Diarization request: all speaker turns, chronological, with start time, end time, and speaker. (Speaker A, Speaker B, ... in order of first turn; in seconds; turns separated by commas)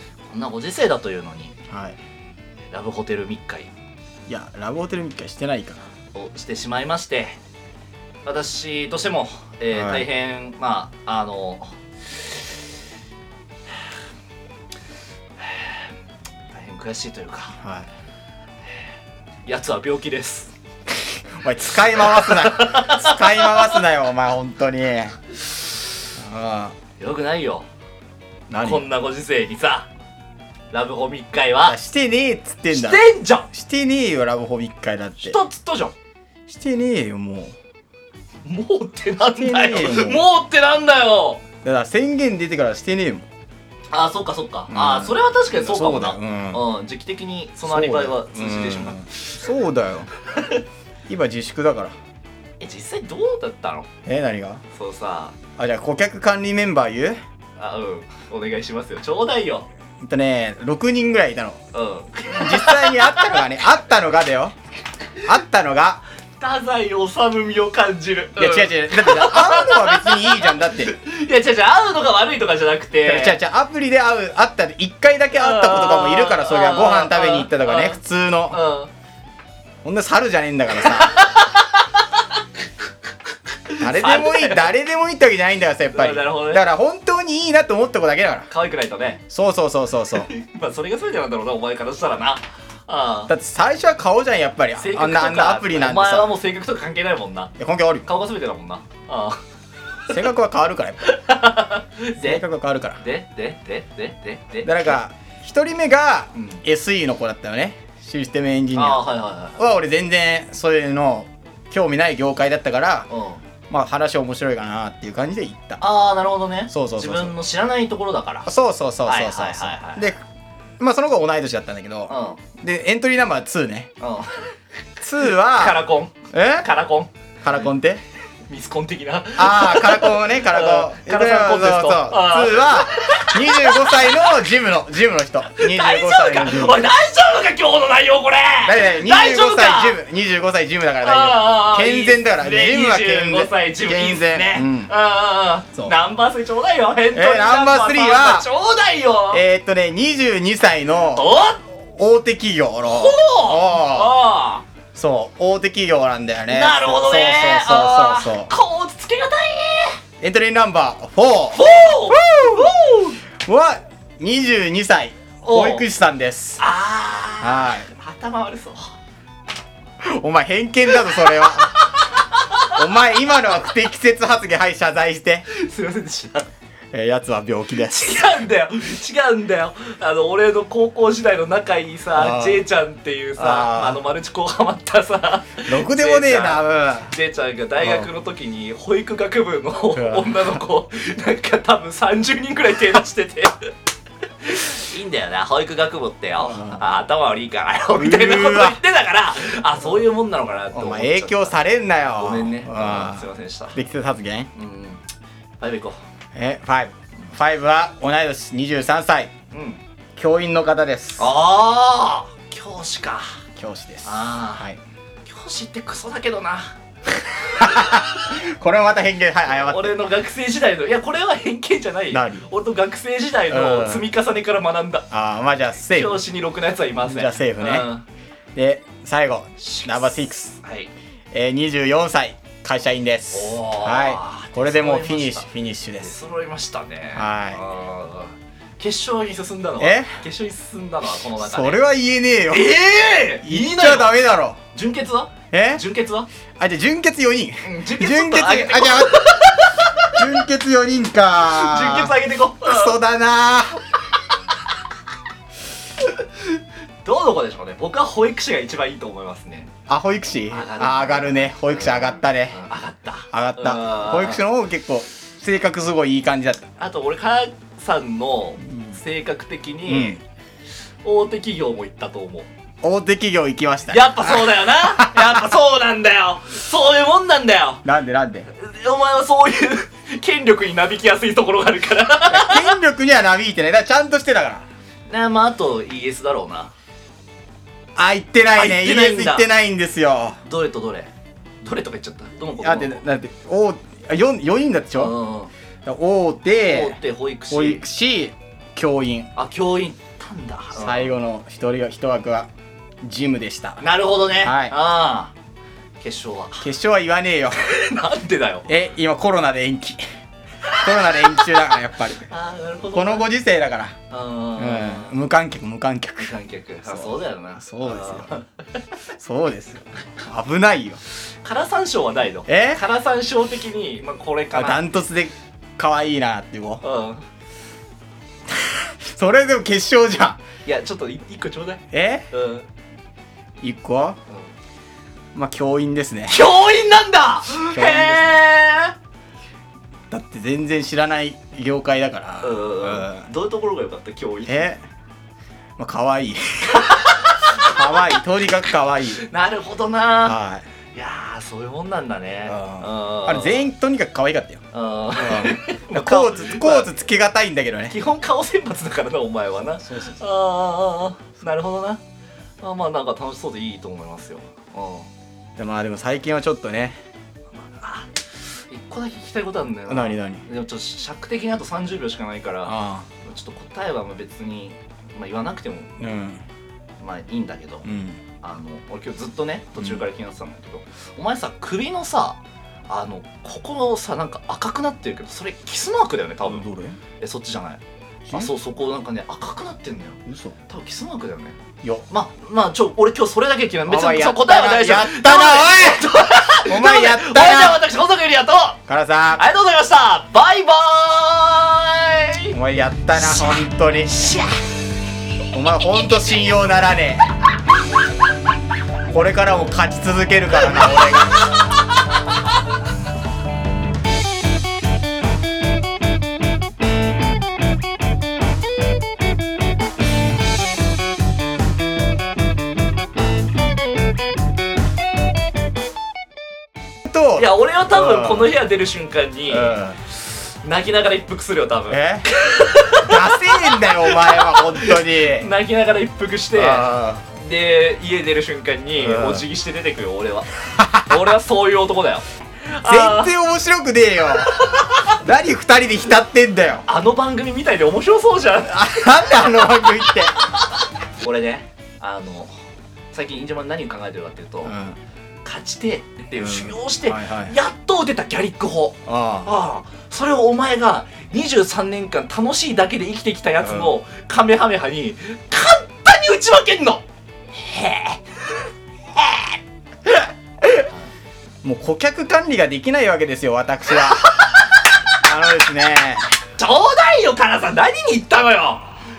Speaker A: 0.2-1.5, Speaker B: 1.7-2.0, Speaker A: 2.7-3.7, Speaker B: 4.3-5.8, Speaker A: 6.1-7.4, Speaker A: 8.2-12.3, Speaker B: 9.7-10.1, Speaker A: 15.4-15.8, Speaker A: 16.5-17.6, Speaker B: 17.6-17.9, Speaker A: 19.4-20.5, Speaker B: 21.1-25.2, Speaker A: 22.0-23.7, Speaker B: 26.2-26.7, Speaker A: 27.0-27.6, Speaker B: 28.5-28.9, Speaker A: 28.6-29.9, Speaker A: 30.7-31.8, Speaker B: 31.6-35.4, Speaker A: 32.7-33.5, Speaker A: 35.2-35.9, Speaker B: 36.5-37.5, Speaker A: 38.4-41.4, Speaker B: 39.2-40.3, Speaker B: 41.6-43.2, Speaker A: 43.9-49.3, Speaker B: 44.7-46.6, Speaker B: 47.6-50.1, Speaker A: 50.4-50.6, Speaker B: 51.1-51.9, Speaker A: 52.6-53.9, Speaker B: 54.0-54.6, Speaker A: 54.7-55.3, Speaker B: 55.6-57.2, Speaker A: 57.6-59.7, Speaker B: 60.0-61.6, Speaker A: 61.7-63.5, Speaker B: 62.3-64.5, Speaker B: 65.2-66.0, Speaker A: 66.4-73.4, Speaker B: 68.4-70.9, Speaker B: 73.0-78.6, Speaker A: 75.3-78.9, Speaker B: 79.8-81.2, Speaker A: 80.8-82.2, Speaker A: 83.7-84.7, Speaker B: 83.8-88.5, Speaker A: 85.9-86.7, Speaker A: 88.5-89.2, Speaker B: 89.3-90.3, Speaker A: 90.1-93.3, Speaker B: 93.3-96.3, Speaker A: 94.8-97.5, Speaker B: 97.6-98.0, Speaker A: 98.0-99.4, Speaker B: 100.1-101.1, Speaker A: 101.0-102.4, Speaker B: 102.2-103.0, Speaker A: 103.0-105.0, Speaker B: 104.6-109.0, Speaker A: 106.3-106.6, Speaker A: 108.7-109.6, Speaker B: 109.6-113.1, Speaker A: 113.1-113.4, Speaker B: 113.7-115.8, Speaker A: 115.8-118.5, Speaker B: 116.7-117.3, Speaker B: 118.5-120.2, Speaker A: 119.0-120.1, Speaker B: 120.8-123.9, Speaker A: 122.1-122.4, Speaker A: 124.0-124.5, Speaker B: 125.0-125.8, Speaker A: 125.2-127.7, Speaker B: 126.3-126.7, Speaker B: 127.4-128.0, Speaker A: 128.5-134.4, Speaker B: 129.4-136.8, Speaker A: 135.5-140.0, Speaker B: 138.6-144.9, Speaker A: 141.0-149.4, Speaker B: 147.1-148.5, Speaker B: 149.3-151.3, Speaker A: 151.1-151.6, Speaker B: 151.9-154.2, Speaker A: 152.8-154.6, Speaker B: 154.9-158.5, Speaker A: 156.5-160.0, Speaker B: 160.2-162.7, Speaker A: 161.5-163.2, Speaker B: 163.4-166.6, Speaker A: 165.4-165.8, Speaker A: 166.6-168.9, Speaker B: 167.4-167.9, Speaker B: 170.0-171.7, Speaker A: 170.9-172.8, Speaker B: 172.7-175.4, Speaker A: 175.5-176.5, Speaker B: 176.9-178.2, Speaker A: 177.8-193.7, Speaker B: 182.1-182.7, Speaker B: 183.4-184.0, Speaker B: 185.6-187.1, Speaker B: 187.8-188.1, Speaker B: 189.9-190.5, Speaker A: 194.4-201.6, Speaker B: 196.4-196.8, Speaker B: 197.9-198.8, Speaker B: 200.7-204.5, Speaker A: 202.2-203.8, Speaker A: 204.5-205.0, Speaker A: 205.6-206.0, Speaker B: 206.3-209.3, Speaker A: 209.5-209.8, Speaker B: 210.2-211.3, Speaker A: 211.2-213.3, Speaker B: 213.6-214.8, Speaker A: 214.0-214.7, Speaker A: 215.2-216.7, Speaker A: 217.3-218.4, Speaker B: 217.6-219.9, Speaker A: 219.5-225.0, Speaker B: 222.1-222.4, Speaker B: 223.5-224.1, Speaker B: 225.1-226.2, Speaker A: 225.8-228.0, Speaker B: 227.0-227.9, Speaker B: 228.5-230.6, Speaker A: 229.6-230.9, Speaker B: 231.3-236.1, Speaker A: 233.3-235.5, Speaker A: 236.0-241.8, Speaker B: 237.1-237.6, Speaker B: 239.8-240.2, Speaker B: 241.4-242.8, Speaker A: 242.5-244.1, Speaker B: 243.4-244.6, Speaker A: 244.7-246.3, Speaker B: 245.5-245.8, Speaker B: 246.6-249.4, Speaker A: 247.6-250.2, Speaker B: 250.1-253.8, Speaker A: 251.4-252.9, Speaker A: 256.0-259.7, Speaker B: 259.9-262.6, Speaker A: 260.5-264.4, Speaker B: 263.3-266.7, Speaker A: 266.8-270.2, Speaker B: 268.6-269.0, Speaker B: 269.9-270.2, Speaker A: 271.0-272.5, Speaker B: 272.8-275.4, Speaker A: 273.9-277.8, Speaker B: 277.8-278.5, Speaker A: 278.5-282.7, Speaker B: 282.3-284.6, Speaker A: 285.1-286.7, Speaker B: 287.9-290.4, Speaker A: 288.5-289.5, Speaker A: 290.4-291.1, Speaker A: 291.6-293.0, Speaker B: 292.6-295.1, Speaker A: 294.9-295.5, Speaker B: 295.8-297.0, Speaker A: 296.5-297.8, Speaker B: 297.5-299.3, Speaker A: 299.3-301.1, Speaker B: 300.7-302.5, Speaker B: 303.0-303.8, Speaker A: 303.8-305.3, Speaker B: 304.3-304.7, Speaker A: 306.0-306.7, Speaker B: 306.6-307.6, Speaker A: 307.6-308.7, Speaker B: 308.7-310.0, Speaker A: 310.7-311.6, Speaker B: 310.8-312.3, Speaker A: 312.2-313.2, Speaker B: 312.9-313.9, Speaker A: 314.1-315.1, Speaker B: 314.6-316.3, Speaker A: 316.2-318.5, Speaker B: 316.9-318.3, Speaker B: 319.2-321.0, Speaker A: 321.4-324.8, Speaker B: 322.5-322.8, Speaker B: 324.5-326.8, Speaker A: 326.8-327.2, Speaker B: 328.5-330.4, Speaker A: 330.6-332.7, Speaker B: 331.9-332.3, Speaker B: 333.6-334.2, Speaker B: 335.3-336.4, Speaker A: 336.3-338.9, Speaker B: 337.7-338.4, Speaker B: 340.1-343.3, Speaker A: 342.4-344.7, Speaker B: 344.4-344.8, Speaker B: 345.8-349.2, Speaker A: 346.8-348.1, Speaker A: 349.2-350.4, Speaker B: 350.2-350.6, Speaker A: 350.9-353.7, Speaker B: 352.5-354.6, Speaker A: 354.7-356.9, Speaker B: 355.1-357.9, Speaker A: 357.9-362.0, Speaker B: 359.8-360.2, Speaker A: 362.6-365.1, Speaker B: 365.6-367.0, Speaker A: 367.6-368.1, Speaker A: 368.7-375.9, Speaker B: 369.9-370.4, Speaker B: 372.6-373.1, Speaker B: 376.0-376.4, Speaker A: 377.0-377.9, Speaker B: 377.8-378.2, Speaker A: 378.4-386.6, Speaker B: 379.8-380.0, Speaker B: 386.4-387.0, Speaker A: 387.2-391.6, Speaker B: 390.3-390.5, Speaker A: 392.1-398.8, Speaker B: 393.9-397.8, Speaker B: 398.9-399.4, Speaker A: 399.4-402.5, Speaker B: 402.5-404.1, Speaker A: 403.1-404.6, Speaker B: 405.5-407.2, Speaker B: 409.1-411.4, Speaker A: 410.7-412.4, Speaker B: 427.0-428.5, Speaker A: 427.4-440.5, Speaker B: 429.5-430.0, Speaker B: 431.9-432.3, Speaker B: 433.0-435.5, Speaker B: 436.5-437.2, Speaker B: 439.0-439.5, Speaker B: 440.7-441.2, Speaker A: 441.0-443.3, Speaker B: 442.8-446.9, Speaker A: 444.6-445.1, Speaker A: 446.9-449.1, Speaker B: 448.6-450.4, Speaker A: 450.4-452.5, Speaker A: 453.1-454.7, Speaker B: 454.6-455.0, Speaker A: 455.4-467.0, Speaker B: 456.4-457.6, Speaker B: 459.1-459.5, Speaker B: 463.6-463.9, Speaker A: 467.5-469.6, Speaker B: 471.6-474.2, Speaker A: 474.0-474.8, Speaker B: 475.2-476.3, Speaker A: 476.6-478.9